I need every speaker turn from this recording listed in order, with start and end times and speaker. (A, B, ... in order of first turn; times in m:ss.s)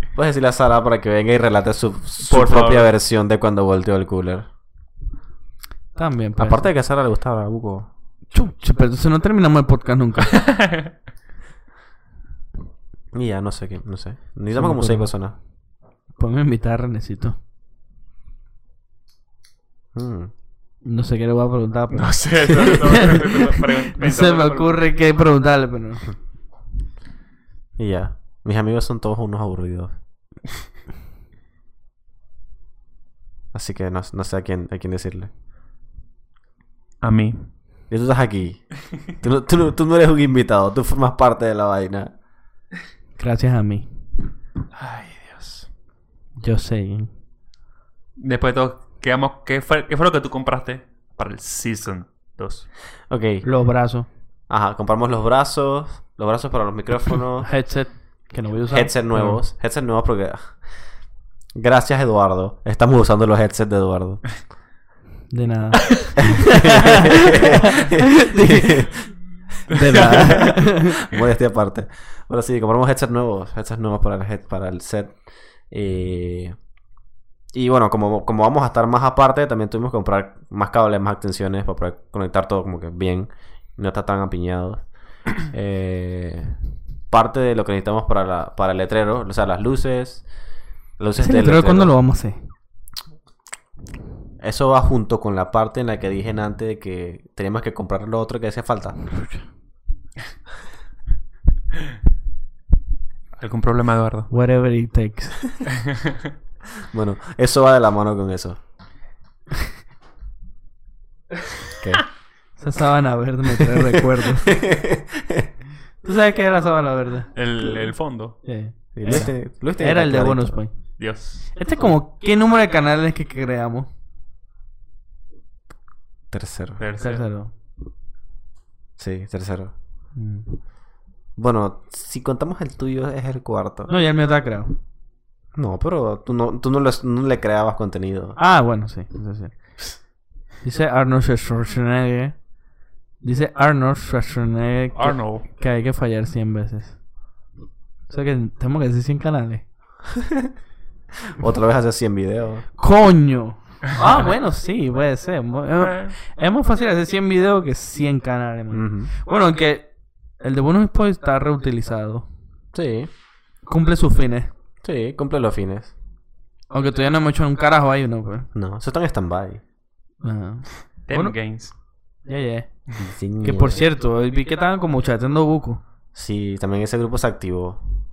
0:00.2-0:04.5 A
0:02.2-0:02.9 B
0:06.0-0:06.7 C
0:06.4-0:07.9 A
0:08.3-0:10.4 C
0:10.3-0:10.9 B
0:13.1-0:15.4 A
0:14.5-0:15.1 C
0:16.2-0:17.4 C
0:19.9-0:20.3 A
0:20.8-0:26.1 C
0:21.9-0:24.8 B
0:27.8-0:29.9 A
0:33.5-0:35.3 A
0:37.0-0:37.5 B
0:37.9-0:42.1 A
0:43.2-0:43.9 C
0:44.7-0:45.7 B
0:46.4-0:47.1 C
0:48.2-0:52.7 B
0:53.1-0:53.5 A
0:53.4-0:54.1 C
0:54.5-0:57.5 A
0:57.4-0:59.4 C
0:58.7-1:00.6 A
1:01.6-1:04.4 A
1:05.3-1:08.9 C
1:05.9-1:06.1 B
1:06.2-1:09.1 A
1:09.7-1:11.0 C
1:09.7-1:10.6 B
1:09.9-1:16.6 A
1:17.5-1:24.9 A
1:25.4-1:26.6 A
1:27.1-1:30.2 A
1:31.0-1:31.9 A
1:31.2-1:32.4 C
1:34.4-1:39.0 A
1:39.1-1:39.4 C
1:43.4-1:44.3 B
1:44.3-1:45.4 C
1:45.8-1:46.2 B
1:46.9-1:48.6 A
1:52.6-1:54.5 C
1:53.6-1:55.5 A
1:56.0-1:57.3 C
1:57.4-1:58.4 B
1:58.4-2:00.7 C
1:59.0-2:00.6 A
2:01.0-2:01.5 B
2:01.6-2:03.9 C
2:06.3-2:06.8 A
2:06.8-2:07.2 B
2:07.0-2:07.5 C
2:09.0-2:09.7 A
2:10.2-2:10.4 C
2:11.4-2:13.9 A
2:13.9-2:14.8 C
2:15.6-2:18.4 A
2:18.4-2:19.5 C
2:20.6-2:22.4 C
2:23.2-2:27.0 C
2:25.0-2:25.4 B
2:28.1-2:29.6 C
2:30.1-2:30.5 A
2:31.4-2:32.6 A
2:32.8-2:39.9 C
2:35.8-2:36.2 B
2:38.7-2:39.1 A
2:40.4-2:42.3 C
2:42.7-2:43.1 A
2:43.7-2:44.5 C
2:44.8-2:45.9 A
2:46.7-2:48.5 C
2:48.6-2:49.6 A
2:50.2-2:51.3 C
2:51.1-2:51.7 B
2:52.3-2:52.7 C
2:53.0-2:53.8 A
2:53.4-2:55.8 C
2:56.1-2:57.8 A